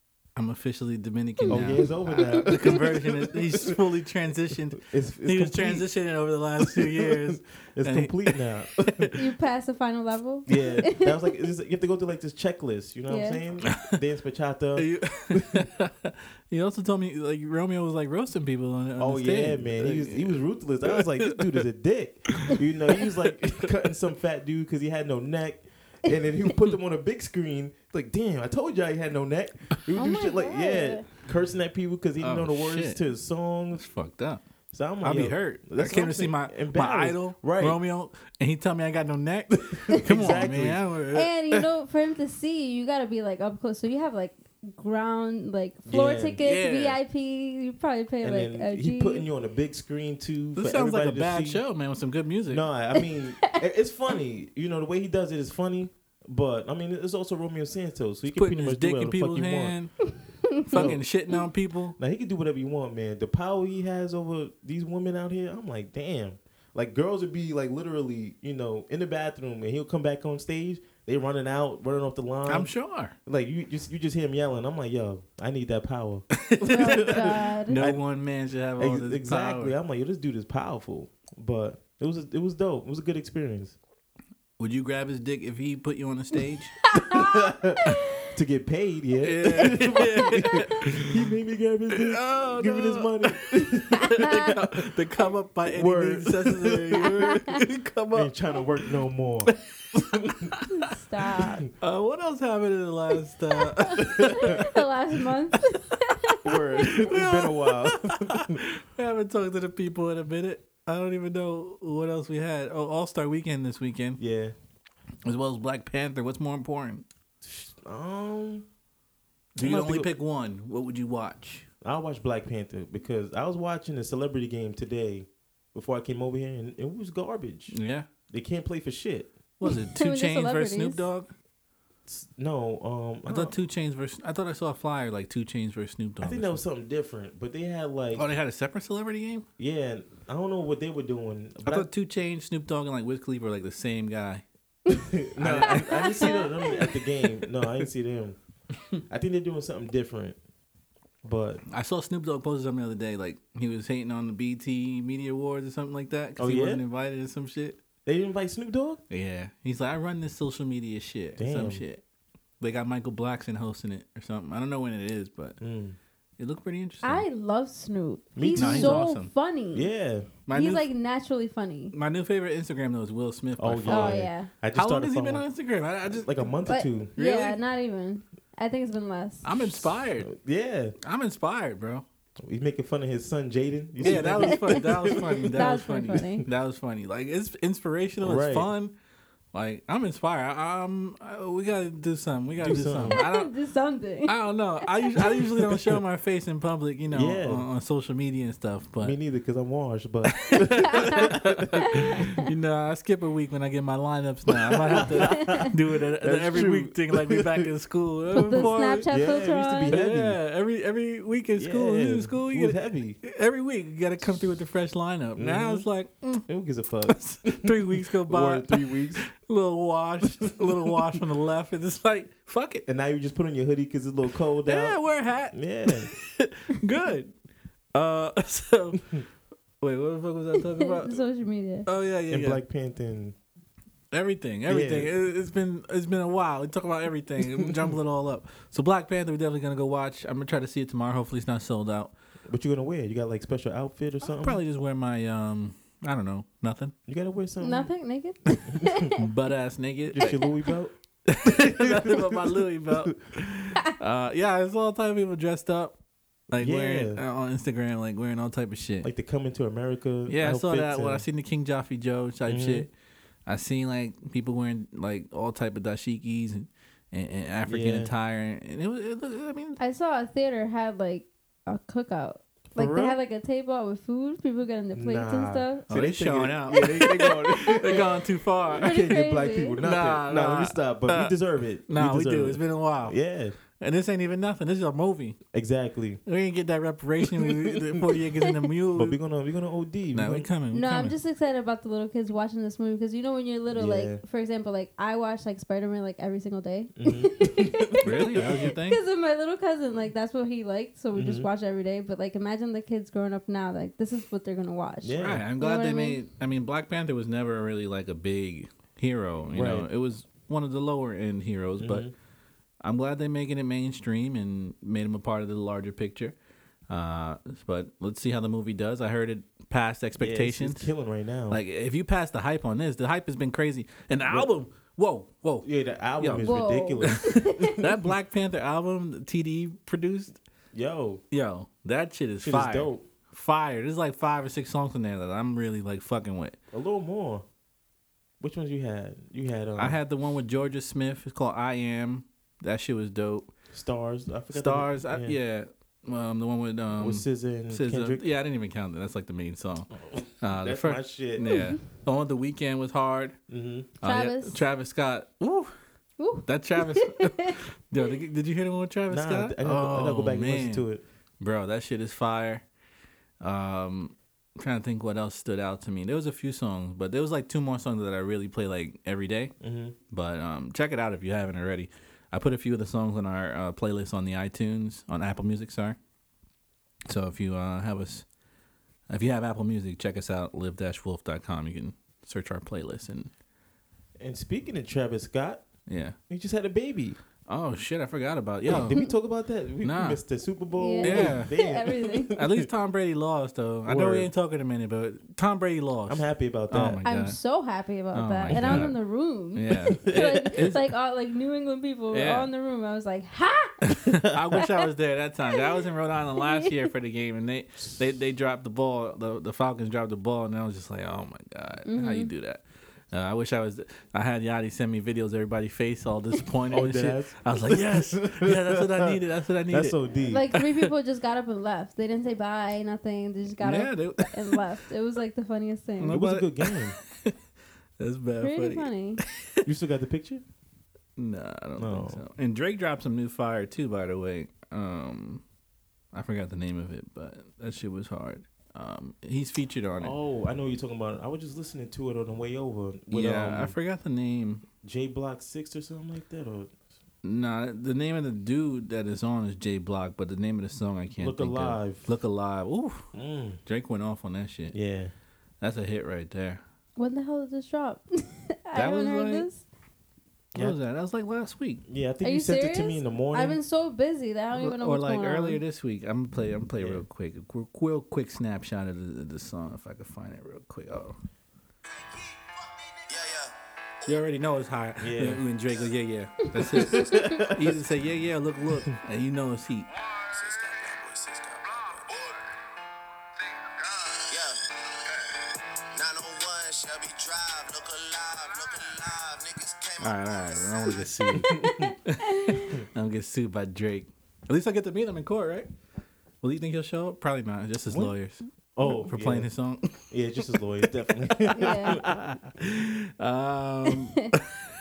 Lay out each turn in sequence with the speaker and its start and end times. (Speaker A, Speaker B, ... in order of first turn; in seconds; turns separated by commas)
Speaker A: 0.3-9.2, Speaker B: 1.5-3.8, Speaker C: 2.2-2.8, Speaker B: 4.8-5.9, Speaker B: 6.6-9.1, Speaker C: 9.1-11.2, Speaker B: 10.4-15.6, Speaker C: 13.1-13.4, Speaker A: 13.7-14.0, Speaker A: 14.8-21.6, Speaker B: 19.0-33.9, Speaker A: 22.3-23.7, Speaker C: 29.9-31.1, Speaker A: 32.2-33.0, Speaker A: 33.7-34.4, Speaker B: 34.7-37.8, Speaker A: 35.0-41.6, Speaker B: 39.6-40.8, Speaker C: 39.9-40.3, Speaker C: 41.1-49.2, Speaker B: 45.9-46.4, Speaker A: 46.4-47.0, Speaker B: 48.2-51.6, Speaker A: 50.5-52.6, Speaker B: 52.5-59.8, Speaker C: 53.0-53.6, Speaker A: 58.3-60.0, Speaker C: 60.1-60.9, Speaker A: 60.6-62.0, Speaker B: 60.7-61.0, Speaker B: 62.0-72.7, Speaker A: 72.5-73.1, Speaker B: 73.2-78.0, Speaker A: 76.4-79.7, Speaker C: 76.7-77.8, Speaker B: 78.8-83.8, Speaker A: 84.6-86.8, Speaker C: 86.9-88.0, Speaker B: 86.9-87.8, Speaker B: 88.3-94.8, Speaker A: 89.2-91.3, Speaker C: 89.7-90.6, Speaker A: 91.9-93.6, Speaker A: 94.1-98.3, Speaker B: 95.7-97.4, Speaker B: 98.1-99.5, Speaker A: 99.5-100.6, Speaker B: 100.1-100.5, Speaker C: 100.7-101.7, Speaker A: 101.8-104.7, Speaker C: 103.8-107.1, Speaker B: 104.2-104.6, Speaker A: 106.3-114.2, Speaker B: 106.4-108.6, Speaker B: 114.2-114.5, Speaker A: 115.2-117.0, Speaker B: 117.4-118.7, Speaker A: 119.5-121.7, Speaker B: 119.6-120.1, Speaker B: 121.8-127.8, Speaker A: 127.7-128.1, Speaker B: 128.3-129.3, Speaker A: 129.6-131.3, Speaker C: 129.6-131.0, Speaker B: 132.1-133.6, Speaker A: 133.3-136.6, Speaker B: 136.2-138.2, Speaker A: 138.1-139.4, Speaker B: 139.6-141.9, Speaker A: 141.6-144.4, Speaker B: 144.9-148.4, Speaker A: 145.4-146.4, Speaker C: 145.8-146.9, Speaker B: 149.1-150.4, Speaker B: 151.2-151.6, Speaker A: 151.7-157.8, Speaker B: 156.4-156.8, Speaker B: 158.0-159.0, Speaker A: 159.1-162.0, Speaker B: 161.4-161.8, Speaker A: 162.6-165.6, Speaker B: 165.6-166.0, Speaker A: 166.4-167.2, Speaker C: 167.0-169.9, Speaker B: 168.3-169.1, Speaker A: 168.5-169.3, Speaker B: 169.7-170.3, Speaker A: 170.4-170.9, Speaker C: 170.5-171.9, Speaker A: 171.9-176.5, Speaker B: 173.6-175.4, Speaker C: 173.9-174.5, Speaker B: 176.1-177.1, Speaker C: 176.7-179.4, Speaker A: 177.2-177.6, Speaker A: 179.4-180.3, Speaker B: 179.6-180.9, Speaker A: 181.0-182.0, Speaker B: 182.4-186.4, Speaker A: 184.0-188.9, Speaker C: 184.0-186.4, Speaker B: 188.2-188.7, Speaker A: 189.5-193.5, Speaker B: 192.6-193.2, Speaker C: 193.1-195.5, Speaker A: 194.3-199.2, Speaker B: 197.1-197.7, Speaker B: 199.0-202.2, Speaker A: 200.3-209.1, Speaker C: 201.9-202.4, Speaker B: 204.5-207.7, Speaker C: 205.3-205.7, Speaker C: 208.3-210.0, Speaker B: 208.4-210.4, Speaker A: 209.9-216.4, Speaker B: 211.6-213.2, Speaker B: 215.4-215.9, Speaker B: 216.5-219.2, Speaker A: 217.1-222.8, Speaker B: 220.5-221.0, Speaker B: 222.9-226.1, Speaker A: 224.7-227.3, Speaker A: 227.9-229.2, Speaker A: 229.8-231.2, Speaker C: 230.8-231.9, Speaker A: 231.8-232.6, Speaker B: 232.3-233.3, Speaker A: 234.1-242.1, Speaker B: 234.7-235.1, Speaker B: 237.6-237.8, Speaker B: 242.5-244.6, Speaker A: 244.3-246.9, Speaker B: 247.1-247.9, Speaker C: 247.6-249.2, Speaker B: 248.7-249.1, Speaker A: 249.2-250.4, Speaker B: 250.1-250.9, Speaker A: 251.3-256.0, Speaker B: 251.4-253.1, Speaker A: 256.5-259.1, Speaker B: 256.6-257.2, Speaker B: 259.0-261.2, Speaker A: 260.3-262.9, Speaker B: 262.5-262.9, Speaker A: 263.4-269.8, Speaker B: 267.6-268.1, Speaker C: 269.8-275.9, Speaker B: 272.7-273.2, Speaker B: 274.9-283.6, Speaker A: 275.9-278.9, Speaker C: 278.8-279.8, Speaker A: 279.8-281.3, Speaker A: 281.9-283.2, Speaker A: 283.7-285.4, Speaker B: 285.5-286.2, Speaker A: 286.2-289.2, Speaker B: 287.2-287.8, Speaker B: 288.9-290.5, Speaker A: 290.1-291.1, Speaker C: 290.7-306.2, Speaker B: 293.7-294.2, Speaker B: 296.9-298.5, Speaker A: 298.0-299.0, Speaker B: 301.1-301.5, Speaker B: 305.0-305.4, Speaker A: 305.2-312.1, Speaker B: 309.5-309.9, Speaker B: 311.8-312.1, Speaker A: 312.8-316.4, Speaker A: 316.9-320.9, Speaker B: 320.2-321.6, Speaker A: 321.5-325.7, Speaker B: 325.6-328.1, Speaker A: 326.2-330.4, Speaker C: 326.4-327.8, Speaker B: 330.7-331.2, Speaker A: 331.3-336.6, Speaker B: 332.4-333.0, Speaker B: 336.7-337.4, Speaker B: 338.4-340.0, Speaker A: 339.8-343.5, Speaker B: 343.7-345.4, Speaker A: 344.5-349.9, Speaker B: 346.9-348.2, Speaker B: 350.0-351.5, Speaker A: 350.4-353.4, Speaker C: 351.5-351.7, Speaker B: 353.5-353.9, Speaker A: 354.0-355.7, Speaker C: 354.0-354.6, Speaker C: 356.2-357.6, Speaker A: 356.4-360.9, Speaker B: 359.1-361.0, Speaker A: 361.4-362.6, Speaker A: 363.4-369.6, Speaker B: 369.6-369.9, Speaker A: 370.1-376.0, Speaker A: 377.1-378.2, Speaker A: 379.1-383.3, Speaker B: 384.2-385.6, Speaker A: 385.9-386.1, Speaker B: 386.3-387.2, Speaker A: 387.5-389.1, Speaker B: 388.7-392.7, Speaker A: 389.8-390.2, Speaker C: 390.8-392.3, Speaker A: 391.0-391.5, Speaker A: 392.3-397.4, Speaker B: 393.9-394.3, Speaker B: 396.1-397.0, Speaker C: 397.0-403.9, Speaker A: 398.1-399.0, Speaker B: 398.5-398.9, Speaker A: 399.5-400.9, Speaker A: 402.1-402.5, Speaker A: 403.9-420.0, Speaker C: 404.5-404.8, Speaker C: 405.5-405.8, Speaker C: 406.4-406.7, Speaker C: 411.9-412.3, Speaker B: 416.7-419.1, Speaker B: 419.7-420.5, Speaker C: 420.3-426.2, Speaker A: 420.5-420.9, Speaker A: 423.6-424.6, Speaker A: 426.0-427.3, Speaker B: 426.1-426.9, Speaker A: 428.0-429.6, Speaker C: 428.4-429.2, Speaker B: 429.6-430.4, Speaker A: 431.2-435.4, Speaker B: 431.8-432.2, Speaker A: 436.1-440.1, Speaker B: 440.0-443.7, Speaker A: 443.1-444.6, Speaker B: 444.8-446.7, Speaker A: 447.2-453.1, Speaker B: 451.2-452.1, Speaker B: 453.1-453.6, Speaker A: 453.6-454.8, Speaker B: 454.7-455.1, Speaker A: 455.6-456.6, Speaker C: 457.0-459.6, Speaker A: 458.8-459.5, Speaker A: 460.5-461.8, Speaker B: 461.9-463.6, Speaker C: 462.2-465.6, Speaker A: 464.6-471.2, Speaker B: 466.8-467.0, Speaker A: 474.0-479.9, Speaker B: 475.0-475.4, Speaker C: 476.5-477.5, Speaker B: 476.8-477.8, Speaker B: 480.4-482.0, Speaker D: 486.0-489.9, Speaker A: 490.0-495.7, Speaker B: 491.4-491.9, Speaker C: 491.4-492.8, Speaker A: 496.4-500.0, Speaker B: 497.9-498.1, Speaker B: 498.8-499.5, Speaker B: 500.1-502.1, Speaker A: 500.8-504.6, Speaker C: 501.6-502.0, Speaker C: 503.9-504.3